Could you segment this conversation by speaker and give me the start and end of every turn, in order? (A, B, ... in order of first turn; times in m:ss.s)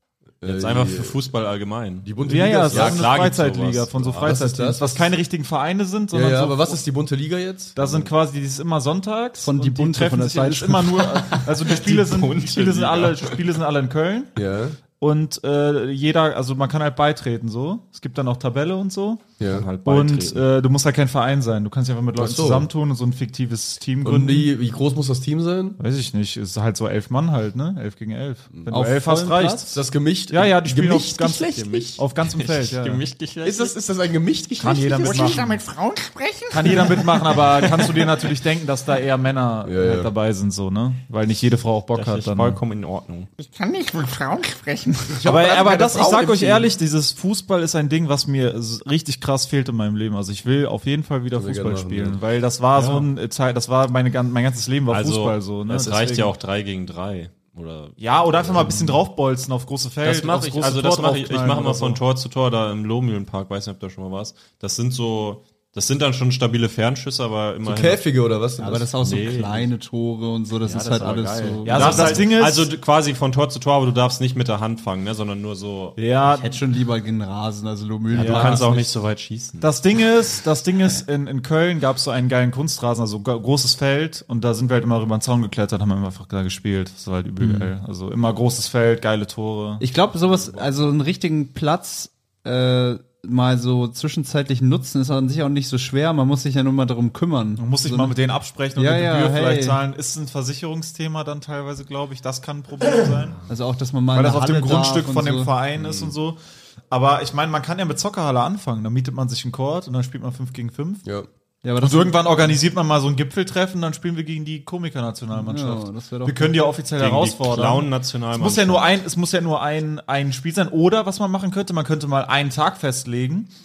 0:00.4-0:01.2 A
0:00.4-0:04.4 B
0:02.0-0:03.1 A
0:02.2-0:06.8 C
0:04.2-0:05.1 A
0:06.1-0:07.8 A
0:07.8-0:14.4 C
0:07.8-0:08.1 B
0:09.4-0:11.1 D
0:11.1-0:13.4 B
0:14.4-0:14.8 A
0:15.0-0:19.2 C
0:19.4-0:19.7 A
0:19.5-0:20.4 B
0:19.8-0:24.5 C
0:22.2-0:22.7 A
0:24.0-0:25.8 A
0:25.8-0:29.8 C
0:28.7-0:29.7 D
0:29.7-0:32.0 A
0:30.3-0:33.0 C
0:31.8-0:33.8 B
0:33.4-0:35.5 A
0:34.6-0:35.6 C
0:34.6-0:37.9 E
0:36.5-0:42.6 C
0:39.6-0:40.1 A
0:41.9-0:43.3 B
0:43.4-0:45.2 E
0:45.1-0:46.7 A
0:45.2-0:56.3 C
0:51.3-0:52.2 A
0:52.8-0:53.1 B
0:54.9-0:58.7 B
0:58.0-1:02.0 C
1:00.0-1:08.0 B
1:07.6-1:08.9 A
1:08.6-1:12.3 D
1:09.0-1:09.7 B
1:10.6-1:16.0 B
1:11.7-1:12.7 C
1:16.0-1:16.6 C
1:16.2-1:18.8 D
1:18.1-1:19.7 B
1:18.1-1:18.8 C
1:19.6-1:29.8 C
1:27.4-1:27.7 D
1:29.8-1:38.2 D
1:30.3-1:30.7 B
1:37.6-1:43.4 C
1:38.8-1:39.8 D
1:43.5-1:45.5 D
1:44.1-1:46.4 C
1:45.8-1:46.1 A
1:46.9-1:51.0 C
1:51.6-1:52.3 D
1:51.8-2:03.5 C
1:55.3-1:56.6 D
1:57.0-1:58.9 B